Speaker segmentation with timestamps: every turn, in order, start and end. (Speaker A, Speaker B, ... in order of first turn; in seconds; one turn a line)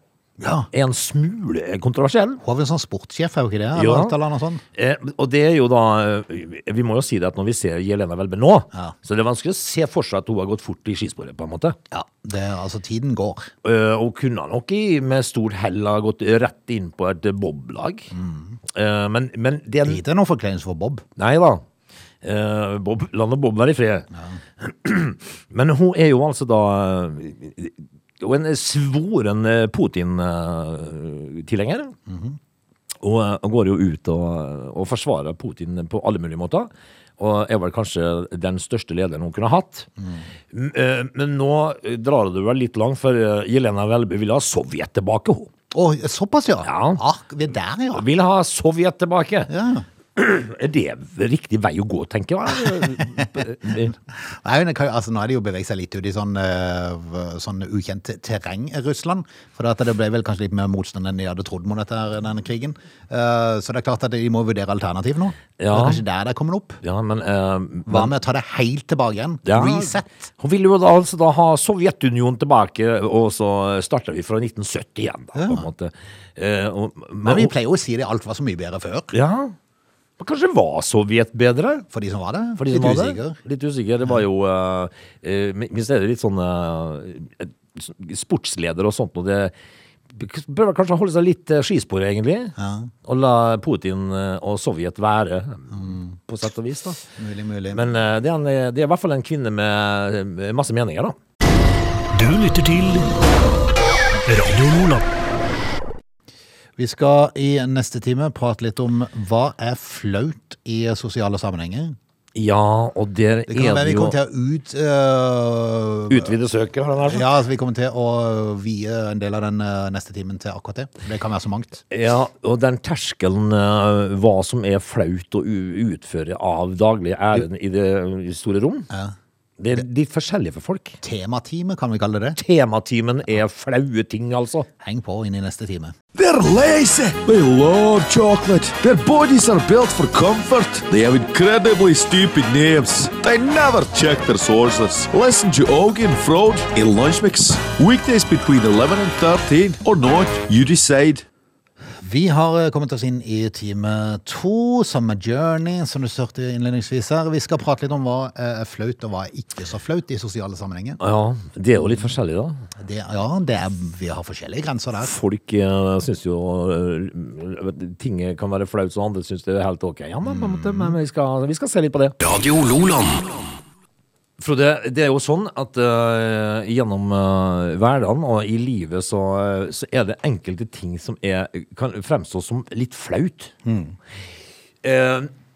Speaker A: 0.4-0.7
Speaker B: 0.7-2.4
Speaker A: 2.4-4.6
Speaker B: 3.7-4.2
Speaker B: 4.7-11.8
Speaker A: 11.9-13.5
Speaker B: 13.6-18.1
Speaker A: 18.1-18.6
Speaker B: 18.7-20.0
Speaker A: 19.8-21.0
Speaker B: 21.1-21.6
Speaker B: 22.2-31.9
Speaker A: 32.1-32.4
Speaker B: 33.0-39.9
Speaker B: 40.5-45.5
Speaker A: 45.7-48.0
Speaker B: 46.6-47.0
Speaker B: 47.9-49.5
Speaker A: 49.5-49.8
Speaker B: 50.1-53.9
Speaker A: 53.0-53.3
Speaker A: 54.1-66.8
Speaker B: 65.6-66.0
Speaker B: 66.8-68.1
Speaker A: 67.9-70.2
Speaker B: 69.4-77.5
Speaker A: 75.3-75.7
Speaker A: 77.2-79.1
Speaker B: 79.1-79.5
Speaker B: 80.2-81.8
Speaker A: 81.9-83.4
Speaker B: 82.6-89.5
Speaker B: 90.1-97.0
Speaker A: 92.6-92.9
Speaker A: 95.7-96.2
Speaker A: 97.2-97.9
Speaker B: 97.7-101.2
Speaker C: 102.1-103.1
Speaker C: 104.2-105.0
Speaker A: 106.8-112.0
Speaker B: 112.3-114.2
Speaker A: 113.5-116.3
Speaker B: 116.1-117.2
Speaker A: 117.0-121.8
Speaker B: 121.9-128.9
Speaker B: 129.6-131.0
Speaker A: 131.0-132.4
Speaker B: 132.4-134.7
Speaker A: 134.8-135.9
Speaker D: 136.1-151.2
Speaker A: 152.0-161.0
Speaker B: 161.0-162.6
Speaker A: 162.8-165.1
Speaker B: 165.0-172.2
Speaker A: 170.2-170.9
Speaker C: 172.2-173.4
Speaker B: 174.4-183.5
Speaker A: 183.6-183.9
Speaker B: 184.8-185.3